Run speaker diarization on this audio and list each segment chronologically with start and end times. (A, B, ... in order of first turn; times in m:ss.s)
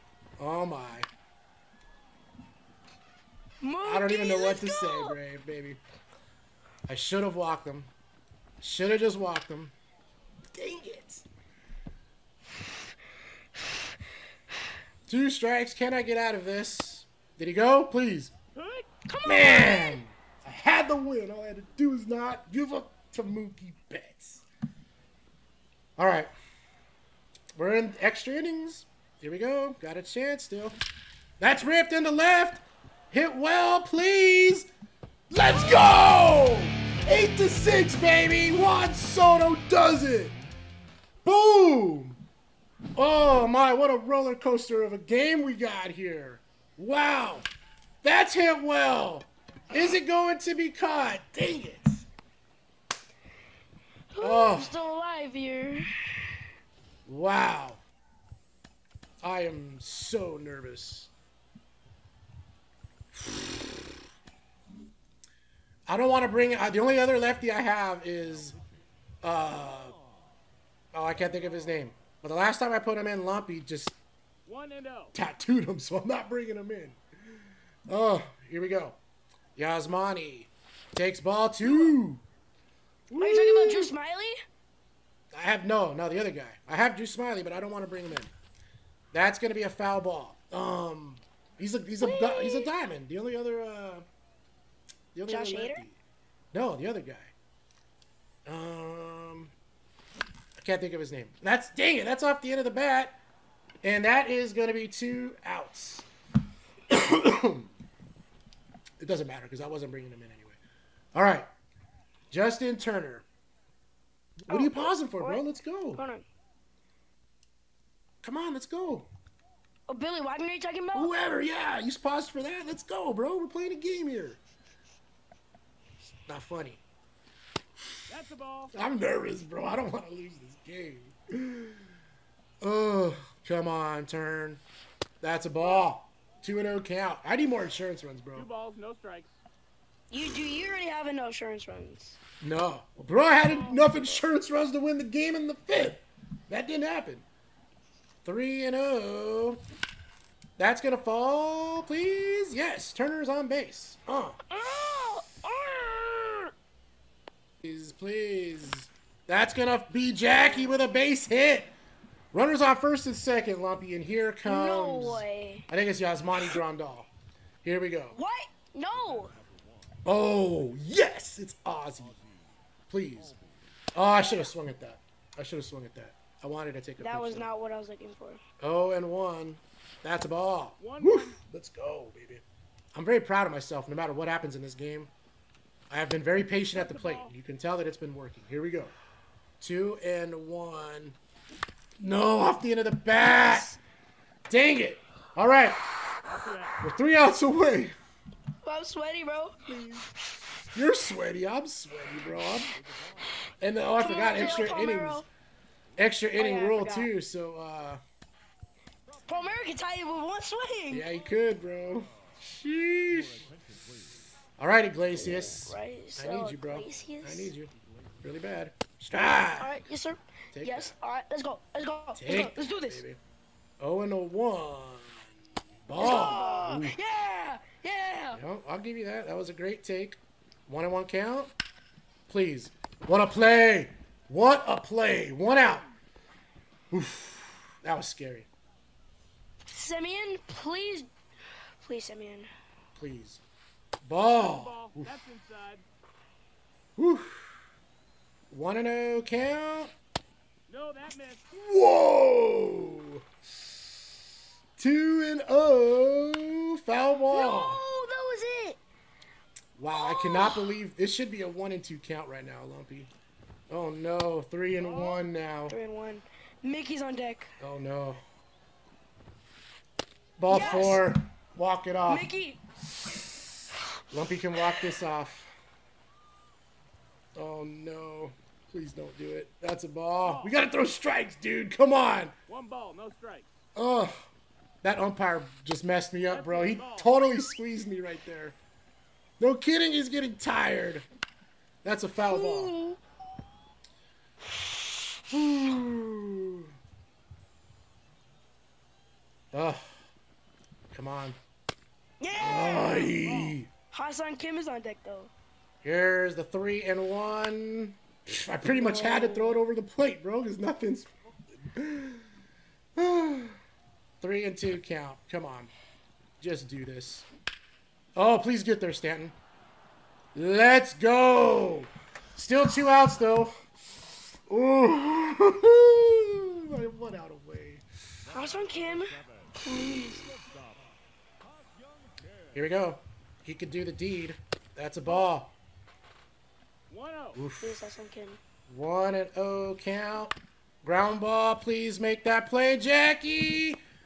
0:00.4-0:01.1 A
0:03.6-0:05.2 B
0:03.8-0:05.8 A
0:06.9-0:07.9 A
0:08.6-0:09.8 A
0:10.5-0:11.2 A
0:15.1-0:18.3 A
0:18.6-0:18.9 C
0:19.1-0:20.0 B
0:19.2-0:24.4 A
0:26.0-0:26.3 A
0:27.6-0:30.8 A
0:31.4-0:34.7 A
0:35.3-0:40.4 A
0:35.5-0:35.8 B
0:41.2-0:42.2 A
0:43.0-0:47.5 A
0:48.0-0:52.1 A
0:54.1-0:56.4 B
0:54.2-0:54.8 A
0:57.1-0:57.8 A
0:59.2-1:01.1 A
1:03.2-1:03.6 A
1:05.9-1:08.6 A
1:09.2-1:10.0 A
1:10.9-1:14.0 A
1:14.5-1:15.1 C
1:15.1-1:17.0 A
1:17.9-1:19.0 A
1:19.6-1:22.2 A
1:23.1-1:23.9 A
1:23.2-1:24.4 B
1:25.3-1:28.3 A
1:29.1-1:34.0 A
1:32.0-1:32.7 B
1:35.1-1:36.0 A
1:35.3-1:35.8 B
1:36.5-1:37.3 A
1:38.5-1:39.5 A
1:40.6-1:43.2 A
1:43.8-1:46.1 A
1:46.9-1:47.7 A
1:49.0-1:50.6 A
1:51.2-1:51.5 A
1:52.3-1:53.3 A
1:54.4-1:56.0 A
1:54.5-1:55.4 B
1:56.0-1:56.3 B
1:58.2-1:59.1 A
1:59.9-2:01.1 B
2:01.0-2:04.4 A
2:06.3-2:06.8 A
2:08.1-2:08.7 C
2:08.7-2:11.8 A
2:12.6-2:14.6 A
2:15.2-2:18.5 A
2:15.6-2:15.9 C
2:18.4-2:19.4 C
2:20.1-2:22.2 B
2:22.4-2:27.3 A
2:23.4-2:23.8 C
2:28.2-2:29.6 A
2:30.6-2:34.4 A
2:34.5-2:36.5 B
2:37.6-2:41.7 A
2:40.4-2:40.8 B
2:42.3-2:47.1 A
2:44.4-2:45.7 B
2:47.6-2:48.2 A
2:48.2-2:49.4 B
2:50.0-2:52.2 A
2:52.9-2:53.4 A
2:53.9-2:57.5 A
2:54.2-2:54.5 B
2:57.0-2:58.4 B
2:58.6-3:05.1 A
3:00.8-3:01.4 C
3:05.9-3:08.9 A
3:06.7-3:07.3 C
3:09.6-3:11.2 A
3:12.0-3:13.7 A
3:13.2-3:13.8 B
3:14.5-3:15.8 A
3:16.3-3:16.8 C
3:16.8-3:18.0 A
3:18.6-3:19.7 B
3:19.7-3:20.1 A
3:20.7-3:22.8 A
3:23.6-3:25.2 A
3:24.0-3:25.3 B
3:26.0-3:28.0 A
3:26.3-3:27.1 B
3:29.3-3:31.1 B
3:30.9-3:33.5 A
3:34.6-3:37.7 A
3:35.1-3:37.5 B
3:38.2-3:39.7 A
3:39.4-3:43.0 B
3:40.5-3:40.9 A
3:42.2-3:43.2 A
3:43.8-3:45.3 A
3:45.9-3:47.0 A
3:46.0-3:48.4 B
3:48.3-3:51.5 A
3:52.3-3:55.8 A
3:55.5-3:56.0 C
3:56.9-3:58.5 A
3:59.7-4:01.1 B
4:01.8-4:02.5 B
4:03.0-4:03.4 A
4:04.0-4:05.1 A
4:04.4-4:05.8 C
4:07.0-4:07.5 A
4:08.5-4:09.9 A
4:10.7-4:11.4 C
4:11.5-4:13.2 A
4:14.8-4:17.8 A
4:17.3-4:18.8 B
4:19.8-4:23.1 A
4:19.9-4:20.8 B
4:23.7-4:25.8 A
4:24.8-4:25.2 C
4:25.7-4:27.5 B
4:27.6-4:28.2 A
4:30.4-4:32.3 A
4:30.5-4:31.1 B
4:32.1-4:32.6 B
4:34.1-4:35.5 A
4:37.4-4:42.4 A
4:40.2-4:40.6 C
4:42.5-4:43.5 C
4:43.8-4:44.3 A
4:44.8-4:48.6 A
4:46.3-4:47.2 C
4:49.4-4:51.1 A
4:51.8-4:52.8 A
4:52.3-4:53.0 B
4:54.5-4:55.2 B
4:55.3-4:56.7 A
4:59.5-4:59.8 A
5:00.9-5:01.4 A
5:02.2-5:03.2 B
5:02.4-5:03.7 A
5:03.2-5:03.6 C
5:03.9-5:05.3 B
5:05.8-5:12.2 A
5:08.6-5:09.6 B
5:13.0-5:13.6 A
5:14.2-5:15.7 A
5:16.4-5:17.3 A
5:18.2-5:19.4 A
5:20.4-5:23.5 A
5:24.5-5:27.8 A
5:28.3-5:30.3 B
5:28.3-5:29.1 C
5:32.5-5:35.5 A
5:36.9-5:37.4 C
5:37.4-5:37.8 A
5:37.6-5:38.4 B
5:38.7-5:43.8 A